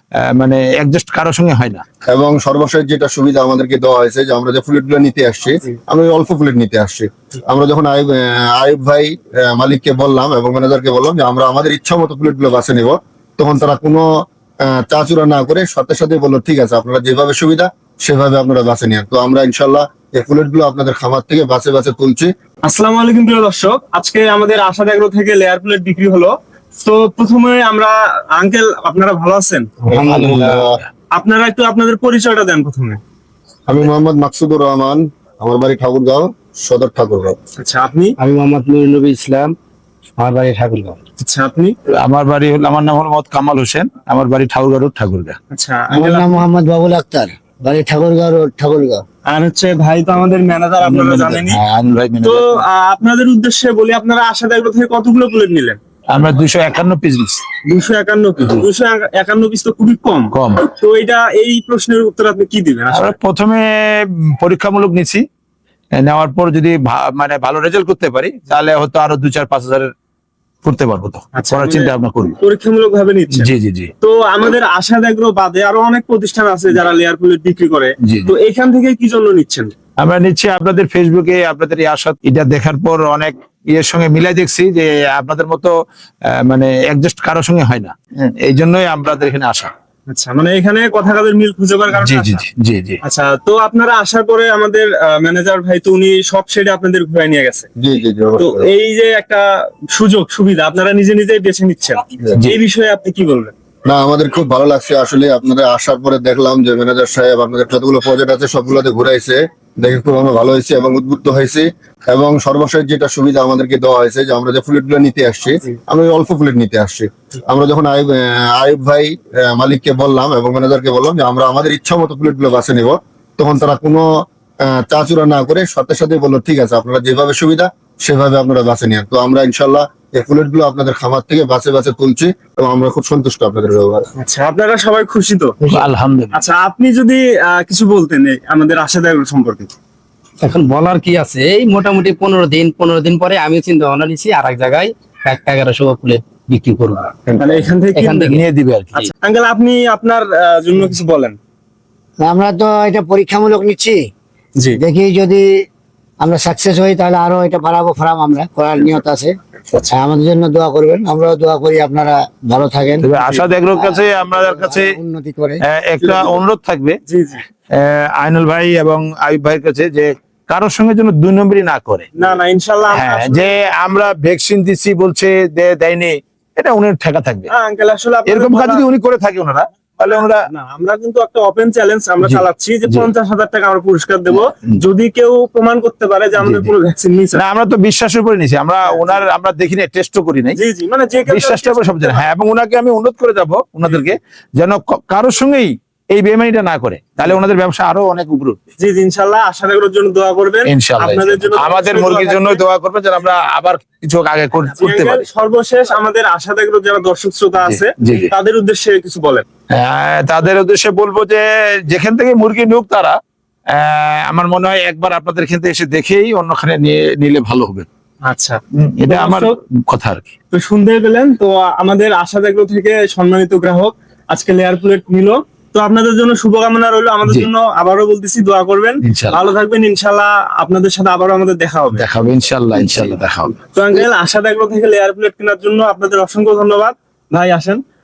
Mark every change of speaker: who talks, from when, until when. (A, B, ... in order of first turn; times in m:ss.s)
0:00.2-0:01.8 A
0:02.1-0:14.0 B
0:14.6-0:22.3 B
0:22.6-0:29.7 C
0:29.9-0:30.8 B
0:29.9-0:30.6 D
0:31.2-0:33.0 C
0:33.7-0:37.4 B
0:37.6-0:38.1 C
0:38.2-0:39.5 D
0:40.2-0:41.0 D
0:41.2-0:41.7 C
0:42.0-0:45.4 A
0:45.5-0:46.4 C
0:45.9-0:49.0 E
0:49.2-0:51.6 C
0:50.8-0:52.6 A
0:52.2-0:55.8 C
0:56.1-0:57.4 A
0:57.7-1:03.2 C
1:00.3-1:00.6 A
1:02.9-1:05.2 A
1:06.0-1:09.9 A
1:10.6-1:12.4 A
1:11.3-1:19.7 C
1:13.3-1:13.9 A
1:18.0-1:18.3 A
1:20.0-1:25.8 A
1:26.3-1:29.7 A
1:30.1-1:32.4 C
1:31.9-1:33.0 A
1:33.0-1:37.7 C
1:37.8-1:38.7 B
1:38.4-1:43.5 C
1:43.8-2:04.0 B
2:04.6-2:14.0 B
2:14.2-2:15.6 C
2:15.6-2:16.3 A
2:16.3-2:19.7 C
2:20.4-2:27.2 D
2:27.3-2:28.4 C
2:27.9-2:28.4 D
2:28.3-2:29.1 A
2:29.2-2:31.4 C
2:32.2-2:34.1 E
2:34.8-2:35.6 E
2:36.2-2:39.4 E
2:39.9-2:43.1 E
2:43.0-2:45.0 A
2:43.2-2:43.5 C
2:43.7-2:45.6 E
2:45.6-2:47.0 A
2:47.1-2:47.4 C
2:47.7-2:52.1 A
2:52.2-2:53.6 C
2:52.9-2:57.5 A
2:57.5-2:58.8 C
2:58.2-3:00.4 A
3:00.2-3:07.4 C
3:02.2-3:03.1 A
3:06.4-3:06.7 A
3:07.3-3:10.6 A
3:08.8-3:09.2 C
3:10.6-3:12.3 C
3:11.3-3:18.6 A
3:18.8-3:22.6 C
3:20.6-3:25.2 A
3:24.8-3:29.4 C
3:27.6-3:28.3 A
3:29.7-3:33.2 A
3:33.7-3:37.8 A
3:38.2-3:39.5 C
3:38.8-3:40.2 A
3:40.5-3:52.1 C
3:49.0-3:49.4 A
3:51.9-3:53.6 A
3:53.7-3:57.8 C